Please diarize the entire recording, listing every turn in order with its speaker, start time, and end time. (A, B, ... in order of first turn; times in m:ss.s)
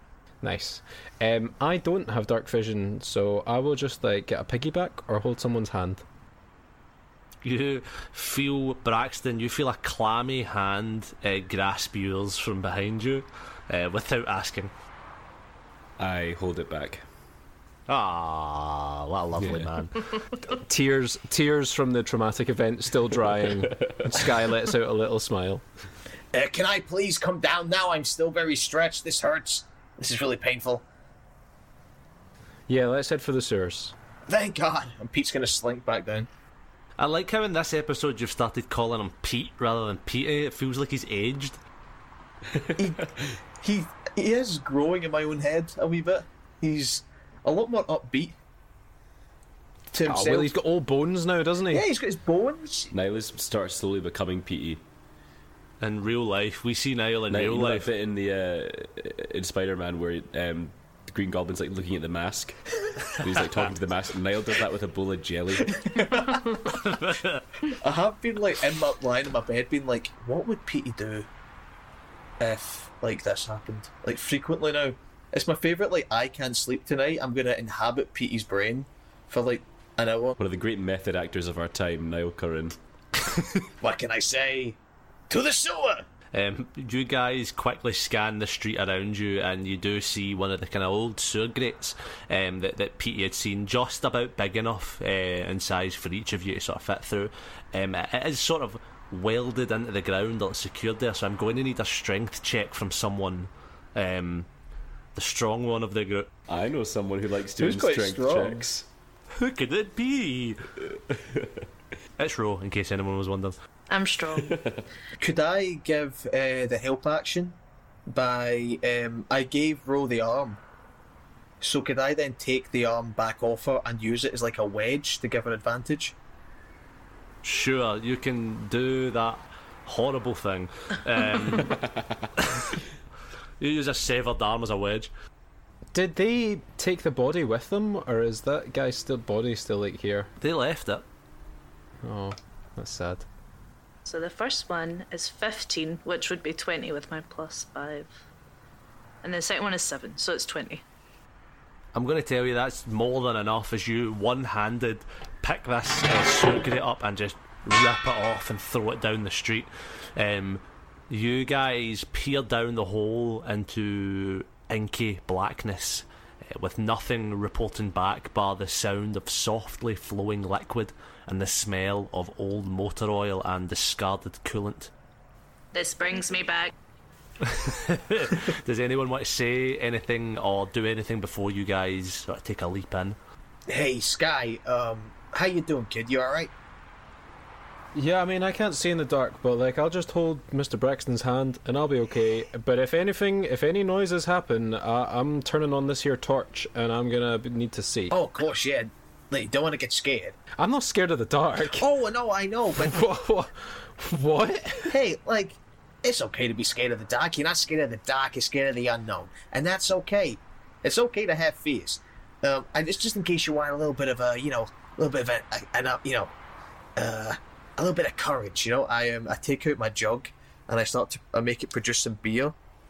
0:00.4-0:06.0 A
0:07.4-0:14.7 B
0:16.0-0:17.0 C
0:17.9-0:20.0 B
0:19.4-0:19.7 C
0:20.4-0:25.6 A
0:23.6-0:24.3 C
0:26.3-0:30.8 D
0:32.7-0:33.9 A
0:34.3-0:36.3 D
0:37.0-0:41.6 B
0:42.8-0:48.4 D
0:49.9-0:50.5 D
0:50.0-0:51.8 A
0:51.7-0:52.9 D
0:52.9-0:54.8 C
0:55.8-0:57.9 B
0:57.3-1:02.6 C
1:03.2-1:05.9 C
1:05.9-1:06.5 D
1:06.6-1:07.5 B
1:07.7-1:11.3 D
1:12.4-1:20.4 D
1:20.4-1:22.8 C
1:23.8-1:24.8 D
1:25.3-1:26.0 D
1:26.3-1:44.5 B
1:45.1-1:46.3 B
1:46.5-1:48.9 C
1:47.6-1:48.6 D
1:49.3-1:50.6 B
1:51.1-1:51.5 C
1:52.2-1:53.6 B
1:53.9-1:54.5 E
1:54.4-1:54.8 C
1:55.2-1:57.6 D
1:58.1-2:00.6 D
2:01.6-2:06.1 D
2:07.4-2:11.8 B
2:11.6-2:12.2 C
2:12.4-2:12.7 B
2:13.6-2:15.1 B
2:15.9-2:20.3 A
2:20.4-2:21.0 B
2:22.0-2:23.2 A
2:24.0-2:28.1 E
2:29.2-2:30.8 E
2:31.9-2:54.9 B
2:55.7-2:56.7 E
2:57.4-3:03.2 B
3:03.7-3:06.5 D
3:07.9-3:18.1 A
3:18.1-3:20.4 D
3:20.6-3:21.9 A
3:21.7-3:23.0 D
3:22.7-3:25.0 A
3:24.9-3:36.3 D
3:37.0-3:42.5 D